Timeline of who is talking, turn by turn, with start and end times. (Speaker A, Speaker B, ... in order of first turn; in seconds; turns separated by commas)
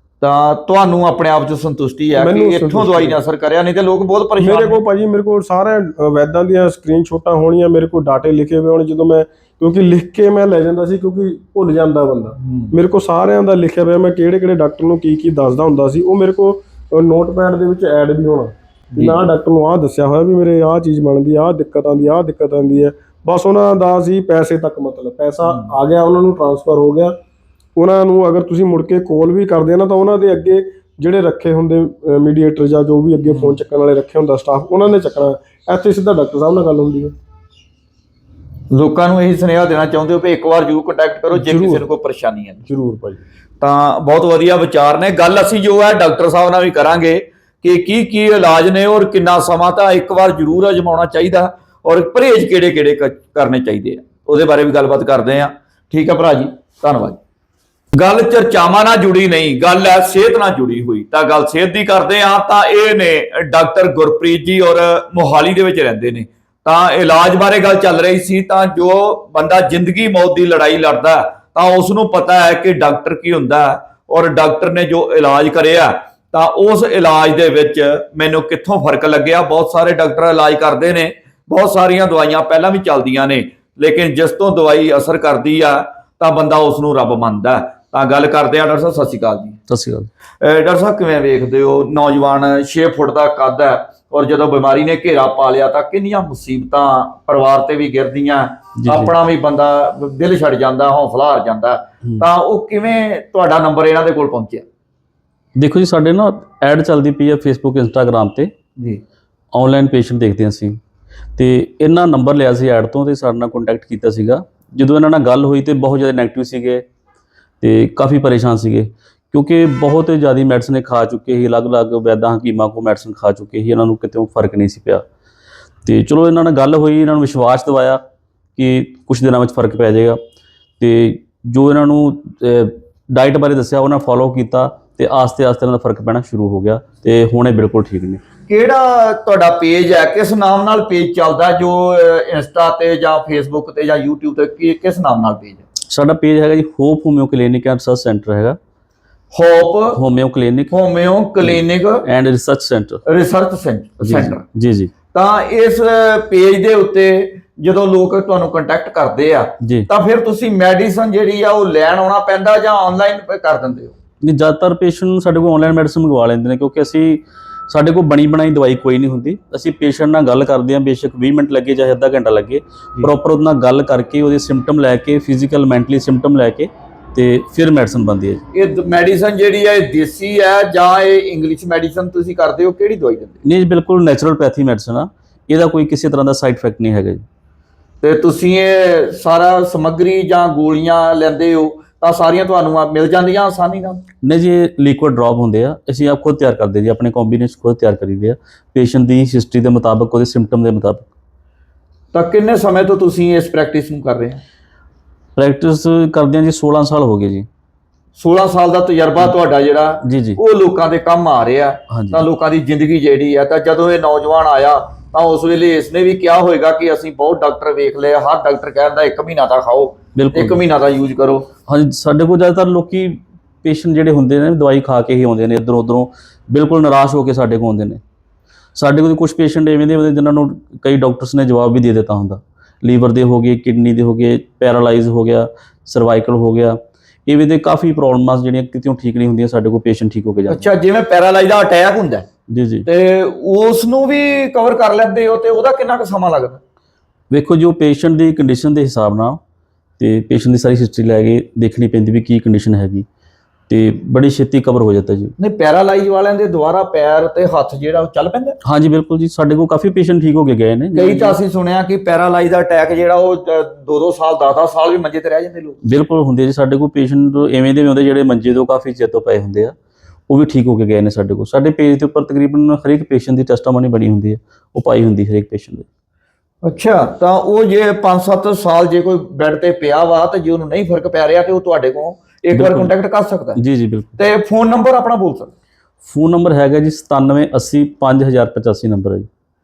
Speaker A: 0.2-4.8, Speaker B: 2.1-3.2, Speaker B: 4.4-27.1, Speaker A: 12.4-12.7, Speaker A: 18.9-19.2, Speaker A: 25.4-25.7, Speaker B: 27.8-37.1, Speaker A: 33.3-33.6, Speaker A: 38.7-42.6, Speaker B: 41.3-41.9, Speaker B: 42.7-43.2, Speaker A: 43.6-57.2, Speaker A: 57.9-89.6, Speaker C: 89.7-90.1, Speaker A: 90.4-104.6, Speaker C: 98.8-99.1, Speaker C: 105.5-108.5, Speaker C: 109.5-110.8, Speaker C: 111.4-116.8, Speaker C: 117.6-125.0, Speaker C: 125.8-128.0, Speaker C: 128.6-130.2, Speaker C: 130.8-138.2, Speaker A: 138.5-145.6, Speaker C: 145.9-148.6, Speaker A: 149.3-150.0, Speaker C: 149.9-150.7, Speaker A: 150.7-152.0, Speaker C: 151.4-153.0, Speaker A: 153.1-154.4, Speaker C: 154.0-154.9, Speaker A: 155.1-163.9, Speaker C: 164.2-178.4, Speaker A: 178.5-183.4, Speaker C: 183.4-187.2, Speaker A: 188.0-194.0, Speaker C: 194.2-201.1, Speaker A: 202.1-204.4, Speaker C: 205.4-207.4, Speaker A: 208.1-221.5, Speaker C: 210.0-210.4, Speaker C: 211.9-212.2, Speaker C: 220.1-220.6, Speaker C: 221.7-228.0, Speaker C: 228.7-240.7, Speaker A: 240.5-242.3, Speaker C: 242.5-242.8, Speaker A: 242.8-246.6, Speaker C: 247.3-249.4, Speaker C: 250.0-253.1, Speaker C: 253.7-255.3, Speaker A: 255.4-258.6, Speaker C: 258.6-261.4, Speaker A: 260.9-265.8, Speaker C: 265.8-269.7, Speaker C: 270.3-275.9, Speaker A: 276.6-283.6, Speaker C: 282.5-282.9, Speaker C: 283.6-284.2, Speaker A: 284.2-285.5, Speaker C: 286.1-289.3